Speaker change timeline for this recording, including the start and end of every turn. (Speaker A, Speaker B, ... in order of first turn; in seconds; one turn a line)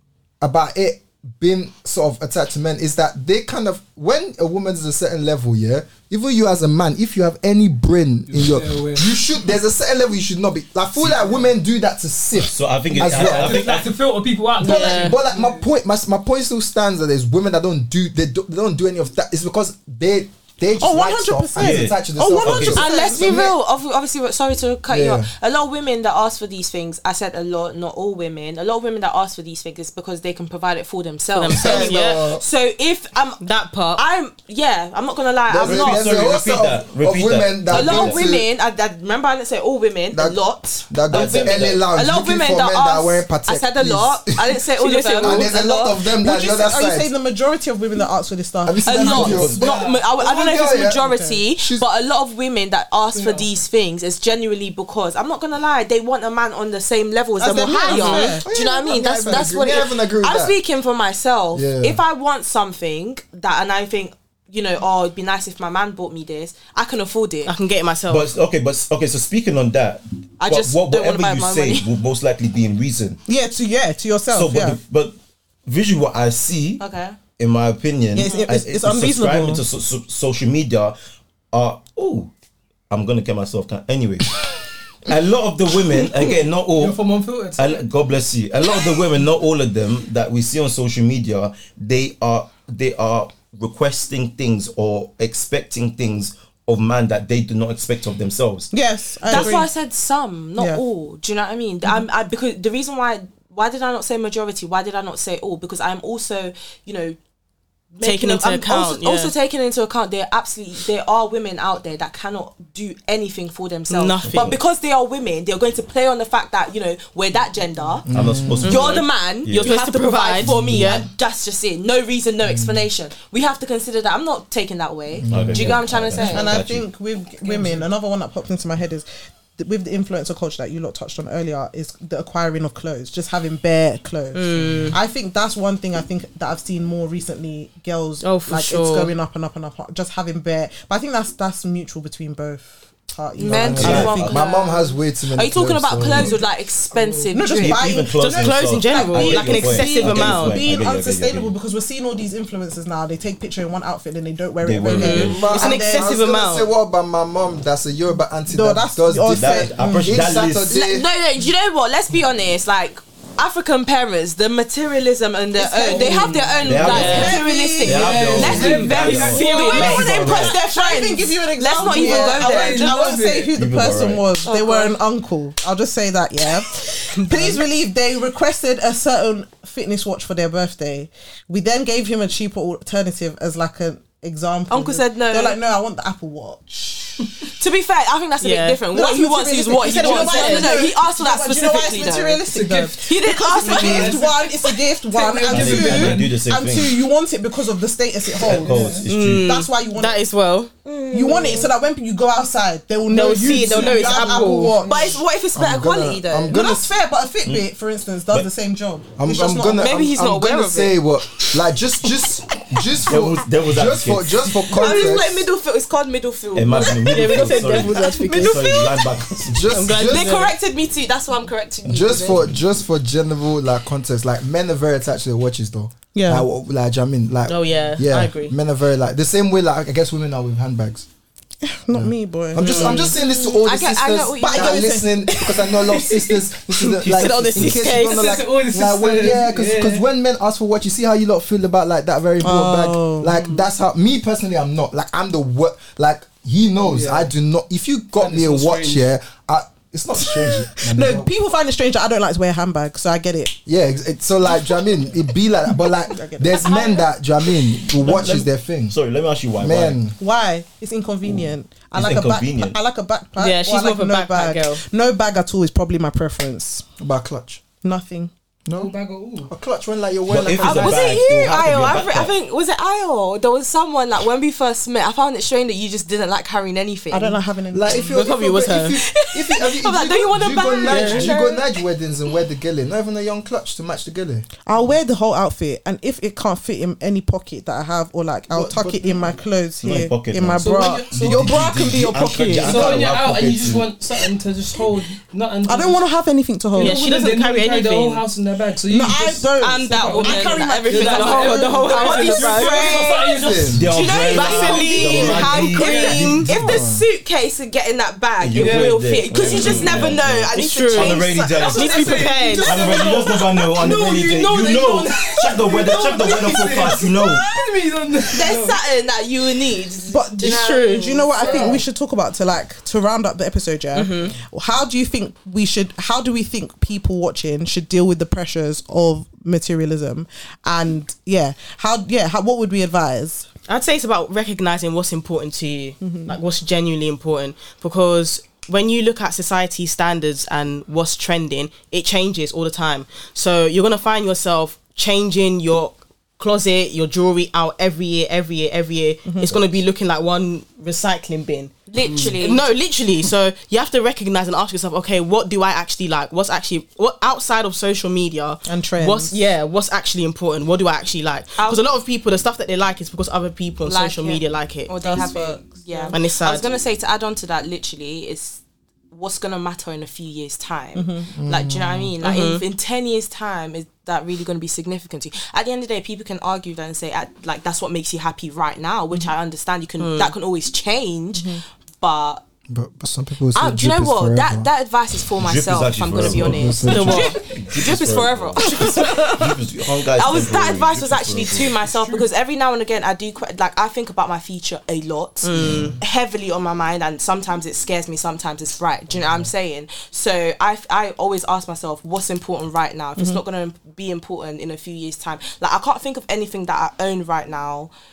Speaker A: 0.4-13.7
Speaker B: 8.3-9.2
Speaker B: 11.1-11.5
Speaker C: 12.4-13.9
Speaker B: 12.9-15.6
Speaker D: 14.6-15.2
Speaker A: 14.6-23.6
Speaker E: 20.8-23.5
Speaker C: 21.6-22.9
Speaker F: 22.7-33.4
Speaker A: 24.9-25.3
Speaker D: 31.3-32.3
Speaker A: 31.5-32.4
Speaker D: 33.4-34.0
Speaker F: 33.9-36.0
Speaker A: 35.5-38.4
Speaker C: 35.6-38.3
Speaker F: 37.7-46.0
Speaker A: 40.1-44.6
Speaker C: 41.1-41.8
Speaker D: 44.8-45.5
Speaker A: 45.2-47.1
Speaker E: 46.1-49.5
Speaker A: 48.6-51.9
Speaker F: 48.8-67.5
Speaker C: 49.0-49.8
Speaker B: 49.5-50.0
Speaker E: 50.9-51.4
Speaker B: 53.1-53.5
Speaker E: 57.4-58.5
Speaker D: 57.9-58.3
Speaker A: 58.4-60.5
Speaker E: 59.1-59.4
Speaker A: 61.5-62.0
Speaker D: 67.4-68.3
Speaker C: 68.1-73.2
Speaker F: 70.4-71.9
Speaker E: 73.3-74.8
Speaker C: 74.3-76.8
Speaker F: 76.8-77.2
Speaker C: 77.4-80.9
Speaker E: 78.1-79.6
Speaker C: 81.5-82.3
Speaker C: 82.9-84.4
Speaker C: 85.0-87.0
Speaker B: 86.8-87.9
Speaker C: 87.5-98.7
Speaker E: 98.7-99.7
Speaker F: 99.3-107.2
Speaker E: 100.6-100.8
Speaker F: 107.9-118.1
Speaker D: 108.0-109.3
Speaker D: 113.9-114.5
Speaker C: 114.2-114.6
Speaker A: 118.1-118.7
Speaker C: 118.1-119.8
Speaker F: 118.6-126.6
Speaker D: 118.6-121.1
Speaker A: 120.4-121.1
Speaker A: 122.4-122.8
Speaker A: 125.2-125.9
Speaker C: 125.3-126.9
Speaker E: 126.2-144.4
Speaker B: 127.5-127.8
Speaker D: 134.3-135.0
Speaker D: 138.2-139.1
Speaker F: 143.4-147.8
Speaker A: 143.5-146.4
Speaker C: 143.6-144.4
Speaker B: 146.0-147.3
Speaker E: 147.3-156.1
Speaker C: 147.6-151.6
Speaker D: 148.2-150.6
Speaker F: 149.7-150.3
Speaker C: 154.6-155.5
Speaker D: 154.9-156.7
Speaker B: 155.2-155.4
Speaker A: 155.2-161.1
Speaker E: 158.5-160.3
Speaker C: 159.3-160.8
Speaker F: 160.6-173.0
Speaker E: 165.6-168.4
Speaker B: 165.9-167.0
Speaker C: 166.6-170.6
Speaker D: 166.9-167.3
Speaker B: 167.9-170.1
Speaker E: 169.3-187.3
Speaker B: 171.8-173.5
Speaker C: 173.5-174.2
Speaker F: 174.4-174.9
Speaker D: 177.2-177.6
Speaker F: 184.7-185.6
Speaker F: 187.6-192.4
Speaker D: 188.4-188.8
Speaker E: 188.9-200.2
Speaker D: 189.8-190.7
Speaker B: 192.5-193.1
Speaker F: 193.0-194.2
Speaker B: 193.6-196.4
Speaker C: 195.5-197.0
Speaker C: 198.4-199.5
Speaker B: 198.4-199.1
Speaker D: 199.1-200.7
Speaker F: 200.8-201.7
Speaker E: 201.1-205.2
Speaker D: 203.1-204.7
Speaker B: 203.6-205.1
Speaker F: 204.8-206.6
Speaker A: 205.6-206.9
Speaker E: 206.5-209.9
Speaker A: 209.2-215.5
Speaker F: 209.7-211.0
Speaker C: 213.1-214.5
Speaker F: 214.7-219.2
Speaker C: 216.6-219.9
Speaker D: 216.8-219.0
Speaker A: 219.5-220.3
Speaker D: 219.7-220.5
Speaker F: 220.0-222.5
Speaker A: 221.9-231.1
Speaker E: 226.1-226.5
Speaker D: 227.5-228.5
Speaker E: 231.6-233.2
Speaker A: 231.9-251.3
Speaker D: 232.6-233.1
Speaker F: 233.0-235.1
Speaker E: 234.4-235.7
Speaker D: 236.9-238.4
Speaker C: 237.0-238.0
Speaker B: 237.9-240.1
Speaker E: 242.4-243.4
Speaker B: 243.4-243.7
Speaker B: 246.8-247.3
Speaker B: 248.2-249.1
Speaker E: 250.4-253.6
Speaker A: 253.7-258.9
Speaker E: 255.9-256.8
Speaker F: 256.6-257.0
Speaker C: 258.0-260.1
Speaker A: 259.6-260.1
Speaker E: 260.2-266.8
Speaker C: 261.3-262.8
Speaker D: 263.4-264.8
Speaker A: 267.0-267.6
Speaker E: 267.8-268.3
Speaker A: 268.6-271.2
Speaker B: 268.8-269.5
Speaker C: 270.3-272.3
Speaker F: 270.6-277.4
Speaker E: 277.1-278.2
Speaker A: 277.7-284.5
Speaker D: 278.1-279.0
Speaker F: 279.0-281.8
Speaker D: 280.9-281.3
Speaker E: 284.6-293.0
Speaker A: 288.5-289.3
Speaker C: 289.8-293.9
Speaker B: 290.6-291.7
Speaker B: 292.6-296.0
Speaker E: 295.6-297.1
Speaker D: 296.7-298.2
Speaker B: 296.8-306.4
Speaker E: 298.9-303.2
Speaker F: 299.6-303.3
Speaker D: 301.2-303.1
Speaker A: 303.3-303.9
Speaker C: 303.7-306.6
Speaker F: 303.9-312.4
Speaker D: 304.1-306.5
Speaker E: 305.0-306.0
Speaker A: 306.4-307.1
Speaker C: 308.4-317.4
Speaker B: 308.6-310.2
Speaker D: 310.5-313.0
Speaker B: 311.8-318.8
Speaker E: 312.3-312.6
Speaker F: 318.3-321.8
Speaker E: 320.1-333.5
Speaker D: 320.4-321.8
Speaker D: 323.9-324.4
Speaker D: 333.7-365.2
Speaker E: 336.0-336.4
Speaker E: 349.2-349.6
Speaker F: 351.9-352.7
Speaker B: 352.0-352.4
Speaker E: 358.6-359.3
Speaker F: 361.6-361.9
Speaker F: 363.8-382.4
Speaker E: 365.0-366.2
Speaker D: 366.1-366.7
Speaker E: 370.9-371.3
Speaker A: 371.3-372.1
Speaker D: 372.2-372.6
Speaker D: 380.0-380.3
Speaker E: 381.3-381.6
Speaker A: 382.7-384.7
Speaker F: 383.6-407.9
Speaker C: 385.3-391.8
Speaker A: 386.2-387.3
Speaker D: 386.9-387.4
Speaker B: 391.8-392.2
Speaker D: 395.4-396.0
Speaker A: 395.6-395.9
Speaker B: 399.1-399.5